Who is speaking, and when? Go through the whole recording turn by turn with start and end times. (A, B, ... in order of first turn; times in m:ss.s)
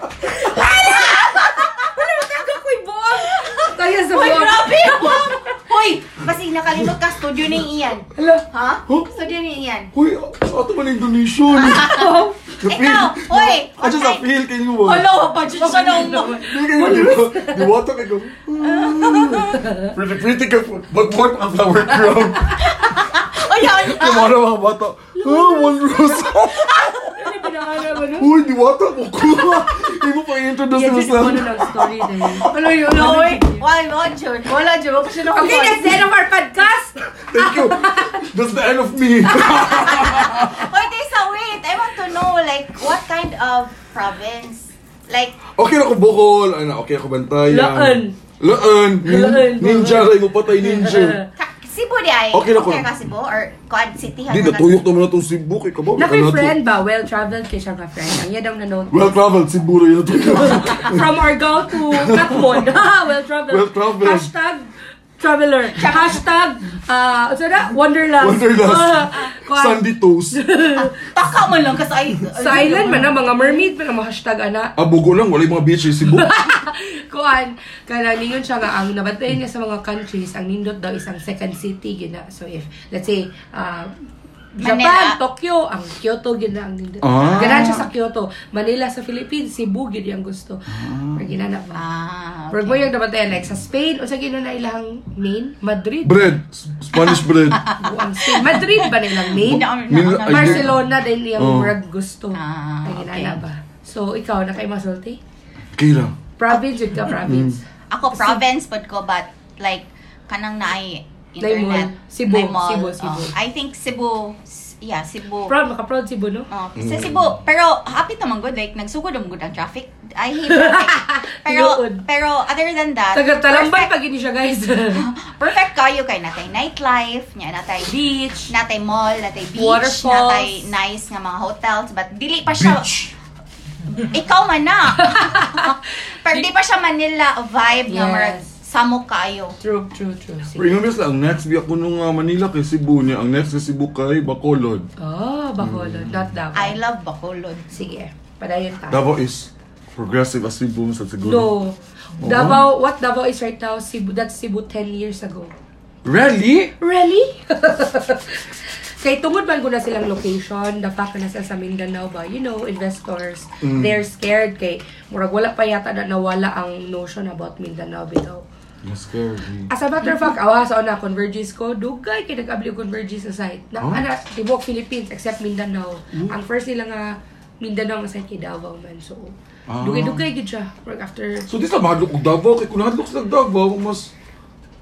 0:00.2-0:05.6 A
0:00.7-0:02.0 B
0:03.2-0:09.9 B
0:08.2-0:08.4 A
0:08.9-0:09.1 C
0:09.9-0:12.0 C
0:11.6-0:16.5 B
0:11.7-0:12.4 A
0:12.6-0:15.2 C
0:15.6-0:17.7 A
0:16.4-0:22.8 C
0:18.6-0:19.7 B
0:19.6-0:19.9 A
0:22.6-0:24.4 B
0:23.5-0:27.1 C
0:25.2-0:26.3 A
0:27.0-0:28.3 A
0:28.2-0:32.5 C
0:30.7-0:33.6 A
0:32.4-0:36.1 B
0:35.3-0:38.3 A
0:37.3-0:40.8 C
0:39.5-0:45.4 B
0:45.6-0:51.2 C
0:47.5-0:48.2 A
0:49.0-0:51.3 A
0:51.4-0:54.8 B
0:52.3-0:52.9 C
0:54.3-0:56.6 C
0:56.0-0:59.0 A
0:58.9-1:01.0 C
1:00.2-1:10.9 A
1:01.9-1:02.7 C
1:03.5-1:04.3 C
1:05.8-1:06.2 B
1:08.2-1:10.4 C
1:10.9-1:13.3 B
1:12.4-1:14.7 A
1:14.8-1:16.4 C
1:16.0-1:23.9 A
1:24.6-1:31.8 A
1:24.6-1:25.2 B
1:27.0-1:27.9 C
1:27.1-1:27.9 B
1:30.7-1:31.3 C
1:31.7-1:32.9 B
1:32.5-1:36.3 A
1:36.0-1:37.6 C
1:36.9-1:40.8 B
1:37.8-1:39.7 A
1:39.4-1:40.8 C
1:40.2-1:45.2 A
1:41.4-1:41.8 C
1:42.3-1:43.4 B
1:45.8-1:46.2 C
1:46.4-1:48.4 A
1:47.2-1:47.6 C
1:47.9-1:55.5 B
1:51.4-1:53.3 A
1:55.5-1:56.5 A
1:56.5-2:03.9 B
1:56.8-1:57.4 C
2:00.5-2:02.0 A
2:03.1-2:05.1 A
2:04.9-2:08.0 B
2:07.9-2:08.5 A
2:08.5-2:13.1 B
2:09.6-2:10.7 A
2:12.5-2:13.1 C
2:13.9-2:19.6 B
2:15.0-2:15.8 A
2:17.9-2:18.5 A
2:19.6-2:20.8 A
2:20.6-2:24.9 C
2:25.0-2:26.8 A
2:25.6-2:26.3 C
2:26.6-2:27.7 B
2:27.7-2:29.0 A
2:28.9-2:31.5 C
2:31.2-2:35.5 A
2:32.2-2:32.7 C
2:36.0-2:36.7 C
2:36.8-2:48.4 A
2:43.6-2:44.0 C
2:48.8-2:49.7 C
2:49.7-3:01.5 A
2:59.7-3:00.2 C
3:01.5-3:04.1 C